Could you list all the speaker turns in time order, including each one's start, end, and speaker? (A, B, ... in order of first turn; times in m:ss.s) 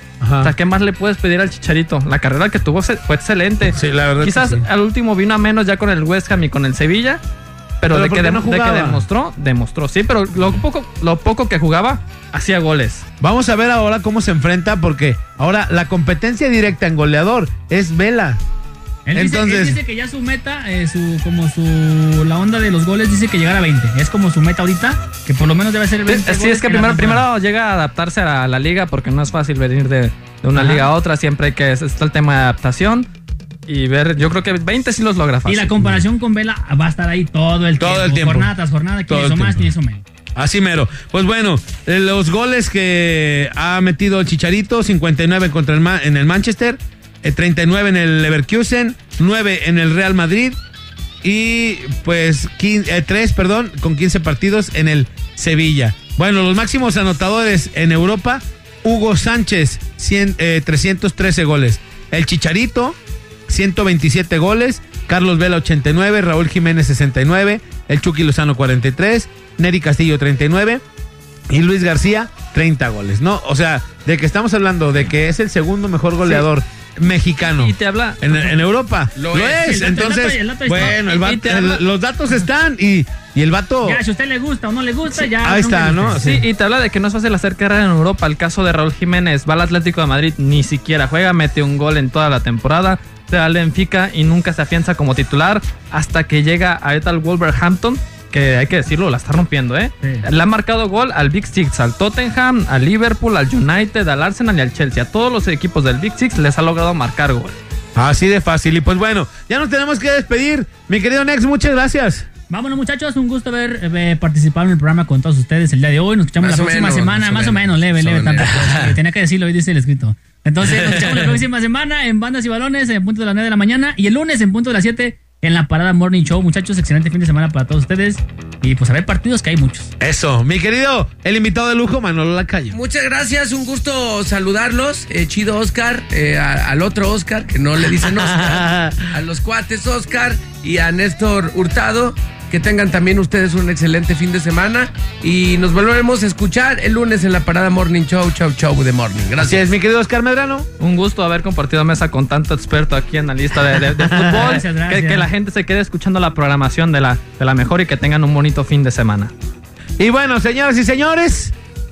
0:00.2-0:00.5 A
0:00.4-0:07.2 B
0:03.7-0:04.7 A
0:07.8-0:13.1 B
0:07.9-0:09.0 A
0:13.2-0:18.4 A
0:19.1-0:27.2 C
0:19.2-0:19.8 A
0:26.1-0:33.1 B
0:30.5-0:30.9 C
0:33.7-0:35.7 B
0:35.5-0:40.0 C
0:37.8-0:38.5 A
0:39.1-0:39.7 A
0:40.4-0:50.6 A
0:51.2-1:03.0 A
1:03.5-1:10.8 A
1:11.5-1:24.0 A
1:17.6-1:18.5 B
1:19.2-1:19.7 D
1:19.6-1:21.0 C
1:20.9-1:21.8 B
1:23.8-1:26.4 C
1:25.2-1:26.4 A
1:26.2-1:47.6 B
1:48.0-1:52.3 A
1:52.5-2:09.9 C
1:56.4-1:58.9 D
1:58.5-1:58.9 A
2:00.6-2:01.4 A
2:10.0-2:12.8 A
2:12.7-2:29.7 D
2:17.8-2:19.2 A
2:29.4-2:30.7 A
2:30.8-2:39.3 B
2:33.8-2:34.6 A
2:34.3-2:35.3 C
2:40.0-2:41.6 A